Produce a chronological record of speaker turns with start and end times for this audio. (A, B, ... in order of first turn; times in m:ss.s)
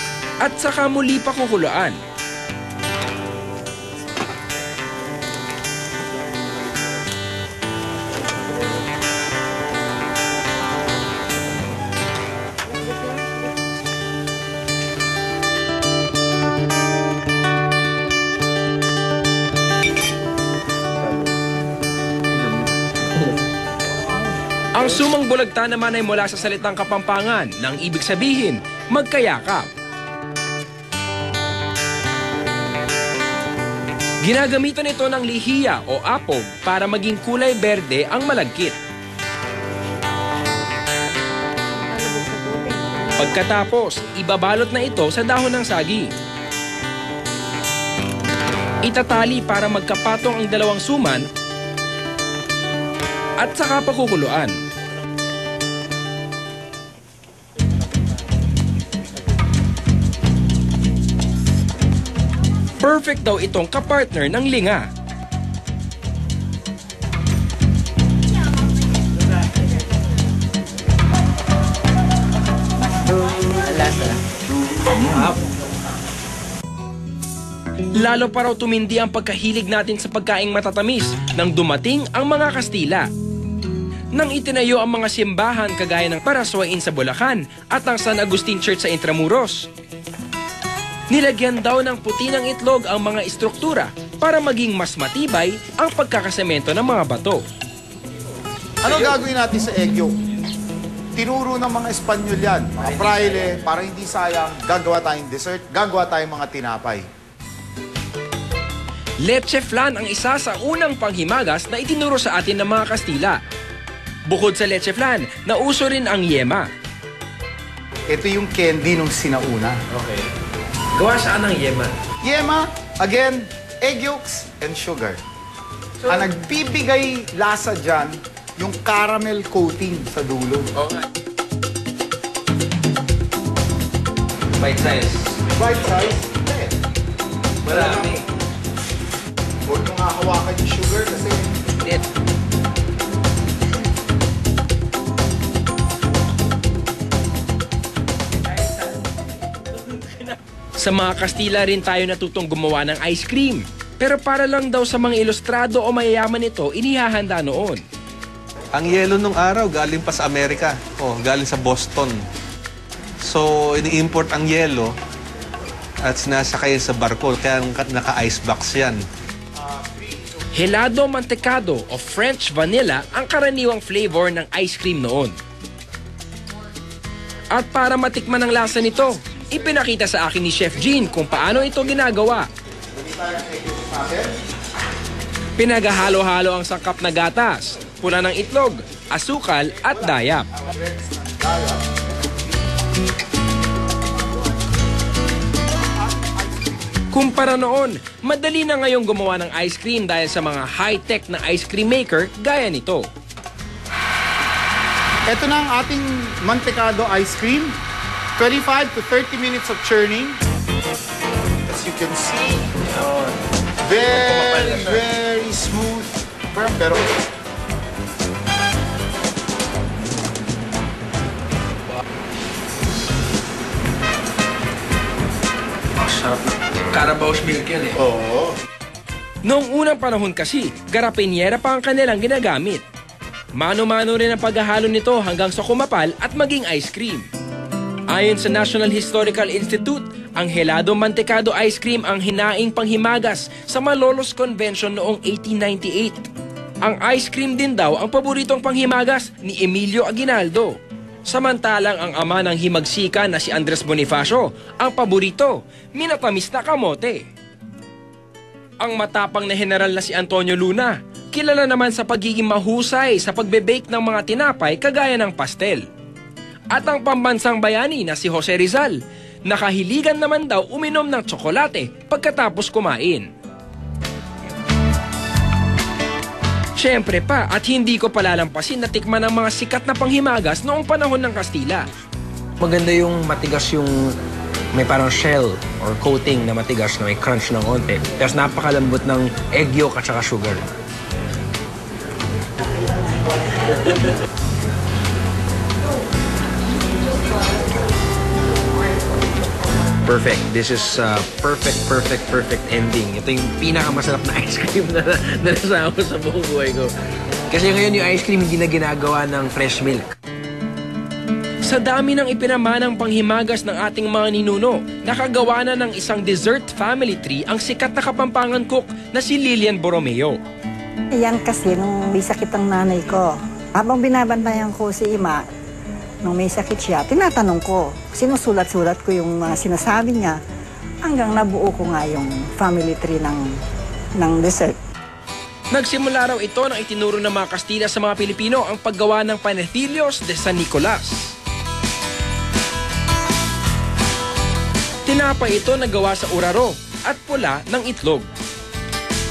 0:00.4-0:02.0 A
0:24.7-0:29.7 A
0:34.2-0:38.8 A
0:43.2-0:46.1 A
0:48.8-0:51.2 A
0:53.4-0:54.5 A
1:02.8-1:04.9 A
1:17.9-1:23.1 A
1:24.1-1:29.7 A
1:31.1-1:37.4 A
1:38.8-1:40.2 B
1:41.1-1:47.1 B
1:49.2-1:53.4 A
1:54.3-1:56.7 A
1:58.1-1:59.8 B
2:01.0-2:01.9 A
2:02.2-2:05.2 B
2:06.1-2:10.7 B
2:14.6-2:15.4 A
2:15.5-2:16.8 B
2:17.6-2:18.2 B
2:17.7-2:18.2 A
2:19.6-2:21.6 B
2:30.8-2:37.8 A
2:38.7-2:42.2 C
2:43.2-2:44.9 C
2:46.0-2:49.0 C
2:49.6-2:50.5 B
2:50.5-2:55.3 A
2:57.5-3:02.5 A
3:02.9-3:04.3 B
3:05.6-3:10.5 A
3:09.8-3:12.6 B
3:16.0-3:16.9 B
3:17.1-3:23.1 A
3:25.3-3:27.7 B
3:28.4-3:30.4 B
3:31.6-3:32.7 B
3:33.8-3:37.1 B
3:46.0-3:46.4 A
3:46.9-3:47.9 A
3:48.0-3:48.5 B
3:49.4-3:52.8 A
3:53.6-3:57.2 A
3:58.1-4:06.3 A
4:06.8-4:17.2 A
4:18.8-4:25.8 A
4:26.7-4:33.3 A
4:36.8-4:41.8 A
4:42.6-4:44.1 D
4:44.7-4:50.6 D
4:45.3-4:45.9 A
4:46.8-4:48.8 A
5:00.1-5:06.9 D
5:04.1-5:04.4 A
5:07.5-5:10.0 D
5:11.6-5:20.4 A
5:21.2-5:25.4 E
5:26.2-5:30.4 E
5:31.0-5:33.4 E
5:34.2-5:34.8 E
5:35.7-5:41.3 A
5:45.0-5:48.3 A